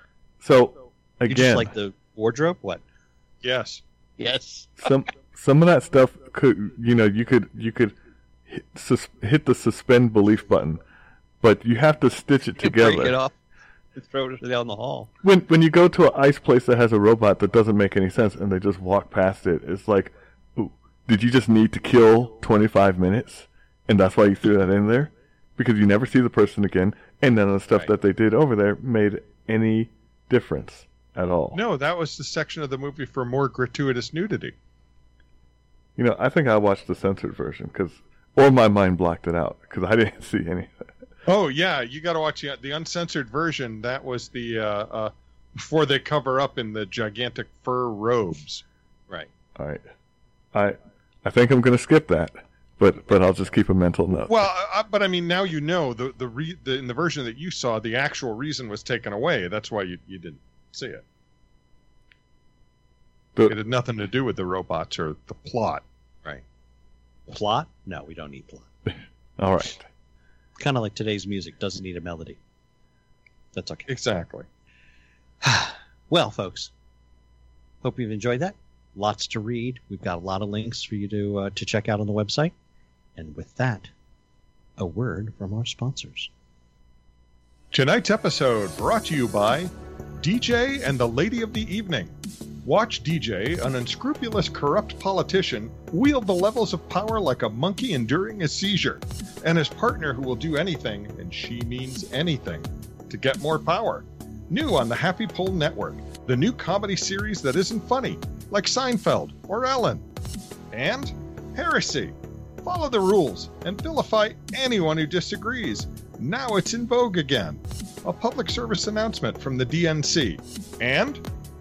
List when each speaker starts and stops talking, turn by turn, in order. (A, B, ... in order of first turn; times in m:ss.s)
0:00.4-0:01.7 A
0:01.3-0:02.8 B
0:03.4-0:03.8 C
0:04.2-0:04.9 B
0:04.8-0:08.0 A
0:08.5-0:10.8 A
0:11.4-0:13.1 A
0:12.6-0:13.3 B
0:13.9-0:15.1 B
0:15.2-0:31.6 A
0:31.5-0:34.5 C
0:36.0-0:40.9 A
0:41.2-0:48.6 C
0:49.6-0:49.8 A
0:50.5-0:54.4 A
0:54.2-1:01.0 C
1:03.4-1:05.8 C
1:07.3-1:08.7 B
1:09.4-1:09.9 A
1:10.6-1:12.4 B
1:13.5-1:13.9 B
1:13.9-1:14.5 C
1:15.4-1:16.7 B
1:17.8-1:22.5 B
1:23.2-1:23.9 B
1:24.8-1:26.3 B
1:27.7-1:32.1 C
1:32.6-1:50.0 C
1:50.7-2:01.2 C